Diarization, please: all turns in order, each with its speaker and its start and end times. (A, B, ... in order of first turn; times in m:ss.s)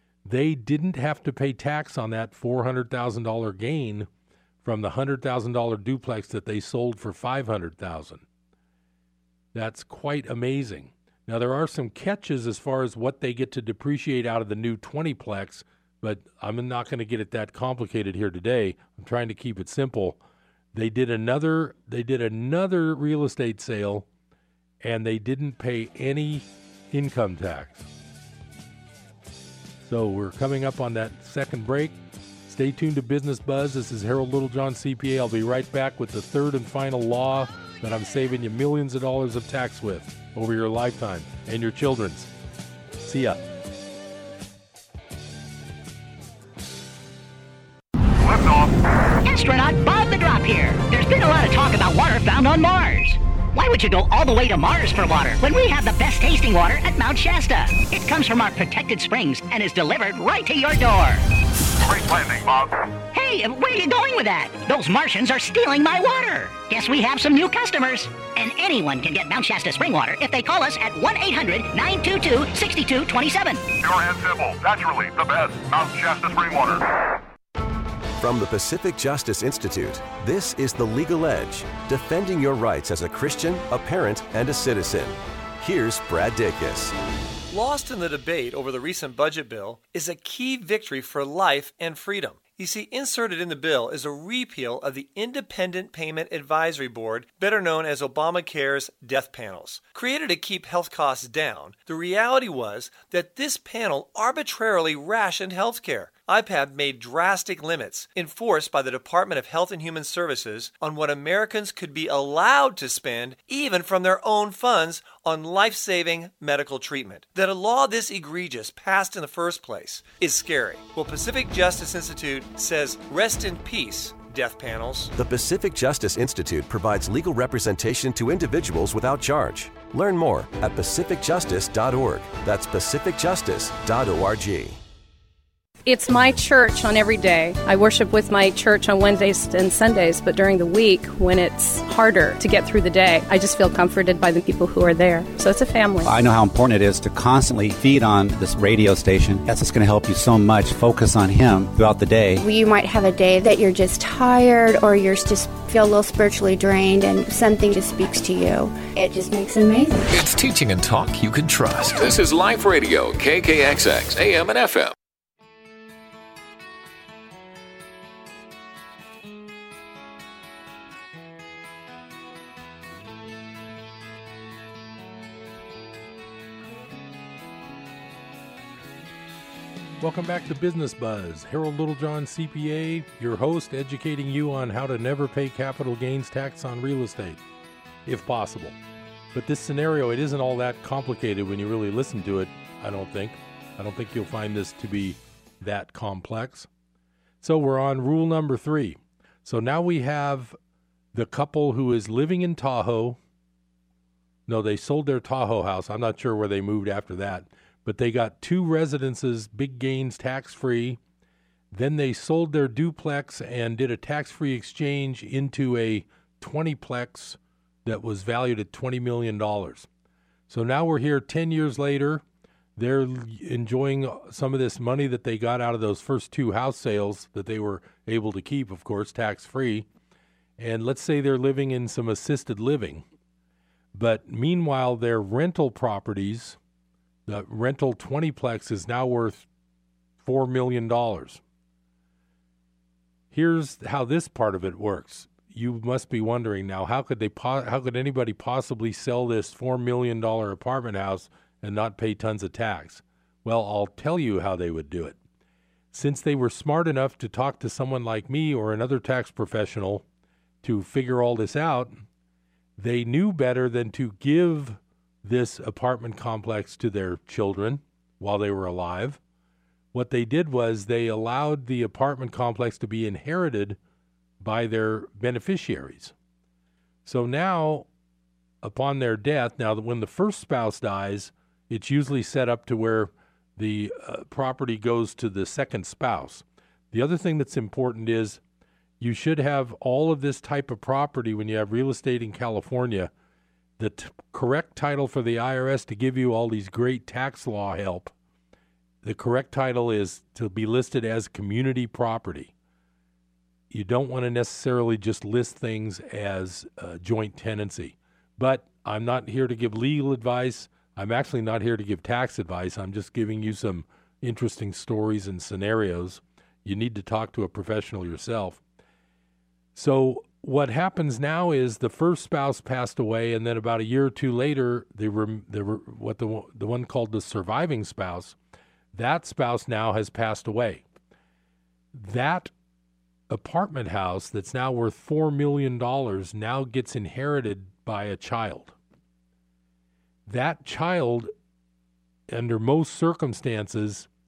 0:00.2-0:04.1 A
0:04.6-0:08.2 A
0:09.5-0:20.2 A
0:20.7-0:24.0 A
0:24.8-0:27.9 A
0:29.8-0:32.0 A
0:32.5-0:42.3 A
0:43.0-0:43.4 A
0:48.2-0:48.8 B
0:49.2-1:01.2 C
1:01.8-1:02.9 B
1:03.0-1:13.7 C
1:13.8-1:17.0 B
1:18.2-1:26.9 D
1:27.5-2:05.1 E
2:05.1-2:14.8 D
2:15.9-2:26.1 F
2:26.9-2:29.7 G
2:30.8-2:32.1 G
2:32.3-2:40.1 H
2:40.1-2:44.9 I
3:00.0-3:07.4 A
3:08.0-3:08.8 A
3:09.3-3:16.7 A
3:17.4-3:20.6 A
3:21.1-3:23.2 A
3:24.5-3:31.0 A
3:31.7-3:39.9 A
3:40.5-3:42.2 A
3:42.8-3:49.9 A
3:50.6-3:53.0 A
3:53.9-3:56.6 A
3:57.3-3:59.5 A
4:00.2-4:01.4 A
4:03.3-4:15.2 A
4:15.9-4:20.0 A
4:20.6-4:22.0 A
4:22.8-4:29.2 A
4:29.9-4:33.8 A
4:34.4-4:36.1 A
4:37.0-4:37.9 A
4:38.6-4:48.4 A
4:49.0-4:53.1 A
4:53.8-4:58.1 A
4:59.0-5:02.5 A
5:03.7-5:18.6 A
5:19.7-5:28.4 A
5:28.9-5:30.8 A
5:31.9-5:32.5 A
5:33.3-5:38.8 A
5:40.3-5:41.3 A
5:42.3-5:44.1 A